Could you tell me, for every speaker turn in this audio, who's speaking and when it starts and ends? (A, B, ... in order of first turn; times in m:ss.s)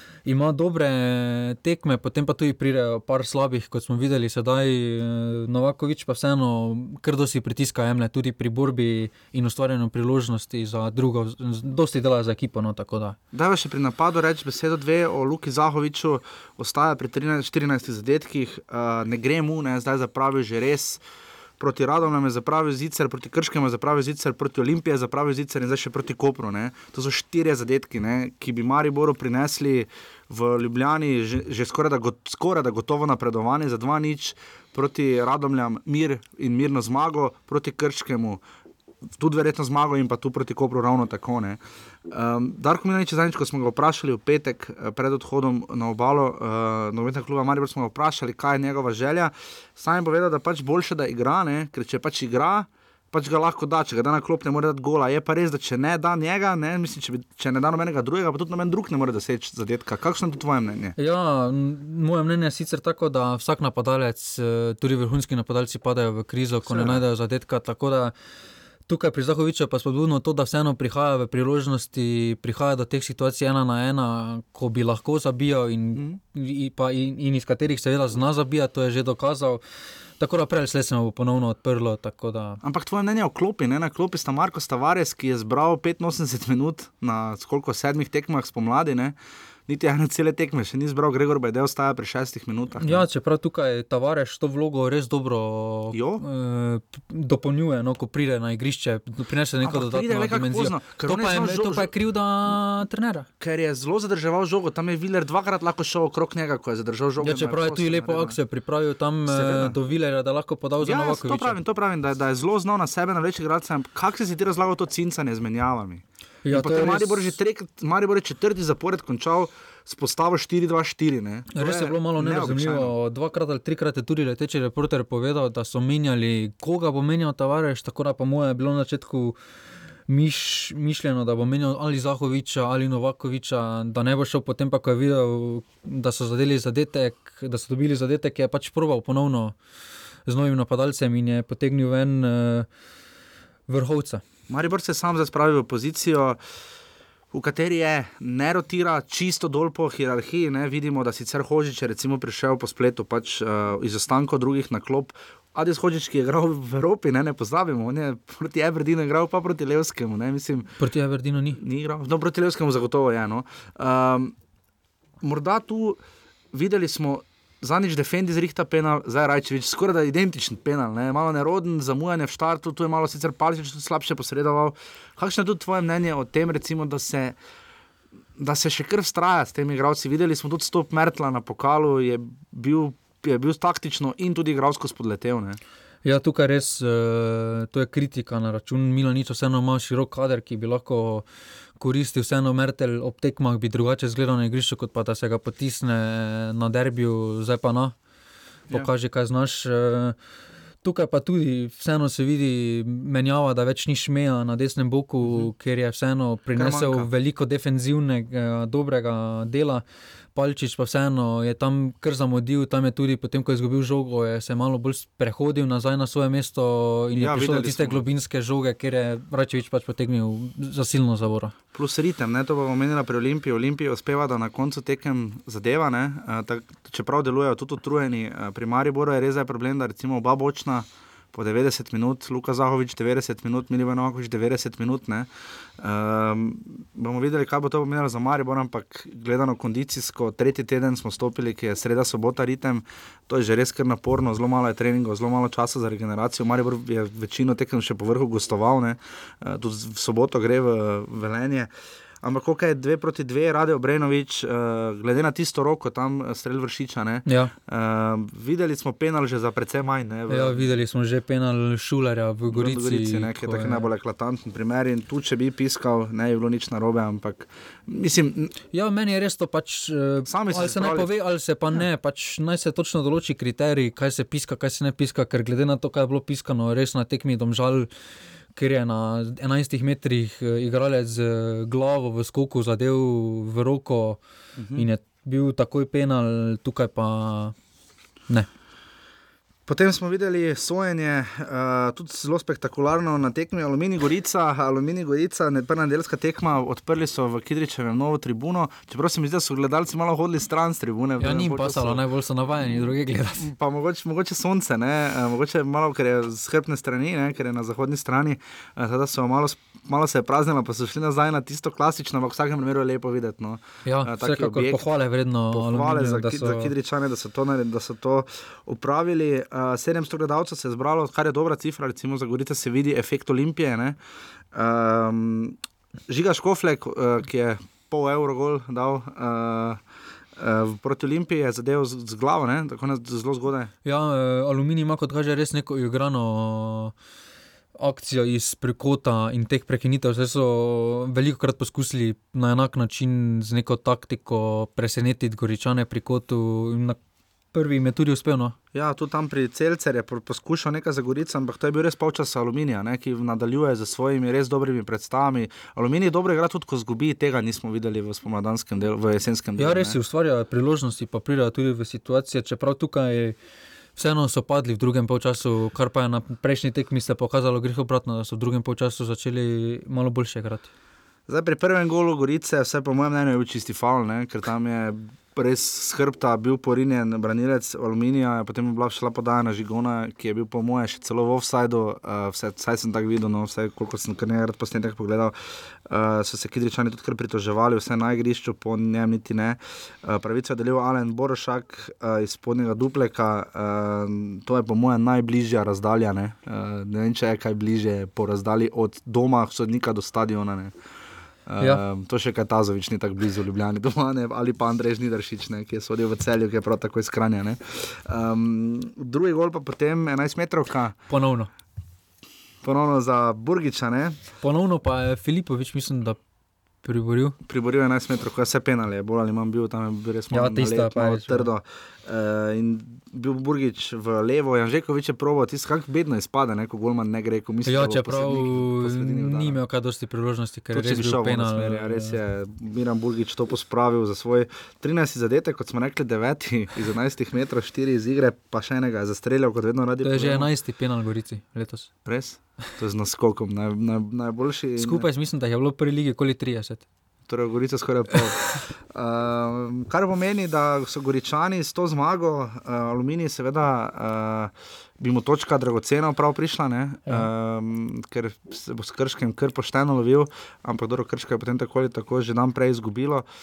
0:00.3-0:13.2 A
0:13.3-0:21.0 B
0:21.6-0:38.4 B
0:39.2-1:01.0 B
1:01.0-1:08.1 A
1:06.7-1:07.0 B
1:08.9-1:19.6 A
1:15.9-1:16.2 B
1:20.2-1:22.6 A
1:22.6-1:33.1 B
1:32.8-1:43.3 A
1:35.9-1:36.2 B
1:39.6-1:41.9 B
1:43.4-1:48.4 B
1:47.2-1:51.6 A
1:49.3-1:49.8 B
1:50.8-2:02.9 B
1:56.4-1:57.3 A
2:01.5-2:09.4 A
2:10.1-2:19.6 A
2:20.3-2:22.7 A
2:23.7-2:24.2 A
2:24.5-2:26.4 B
2:27.3-2:40.7 B
2:40.8-2:41.6 A
2:41.6-2:44.4 B
2:45.2-2:46.0 B
2:46.5-2:57.4 B
2:58.4-3:05.6 B
3:06.0-3:11.2 A
3:11.8-3:18.0 A
3:18.7-3:20.2 A
3:20.8-3:29.8 A
3:25.2-3:25.5 B
3:26.6-3:27.1 B
3:30.4-3:41.5 A
3:37.2-3:38.0 B
3:41.7-4:11.7 B
4:12.2-4:20.7 B
4:17.3-4:17.5 A
4:20.3-4:23.9 A
4:22.5-4:28.5 B
4:28.7-4:37.9 A
4:30.3-4:31.1 B
4:38.6-4:44.2 A
4:44.6-4:44.9 B
4:44.8-4:47.6 A
4:49.7-5:02.0 B
5:01.2-5:03.5 A
5:03.4-5:14.9 B
5:13.9-5:16.7 A
5:15.5-5:24.0 B
5:24.5-5:25.6 B
5:26.1-5:29.8 B
5:30.4-5:33.7 B
5:33.8-5:36.9 A
5:37.8-5:47.0 A
5:47.5-5:48.6 A
5:48.7-6:00.0 B
5:59.6-6:03.4 A
6:04.0-6:10.7 A
6:11.3-6:25.4 B
6:25.9-6:40.7 B
6:41.5-6:51.0 B
6:51.1-6:51.5 A
6:52.6-6:54.2 B
6:54.4-6:56.2 A
6:56.8-6:57.4 A
6:57.4-7:09.6 B
7:00.3-7:01.5 A
7:07.7-7:12.2 A
7:10.7-7:20.5 B
7:20.0-7:21.9 A
7:22.0-7:25.1 B
7:24.8-7:26.8 A
7:27.3-7:43.3 B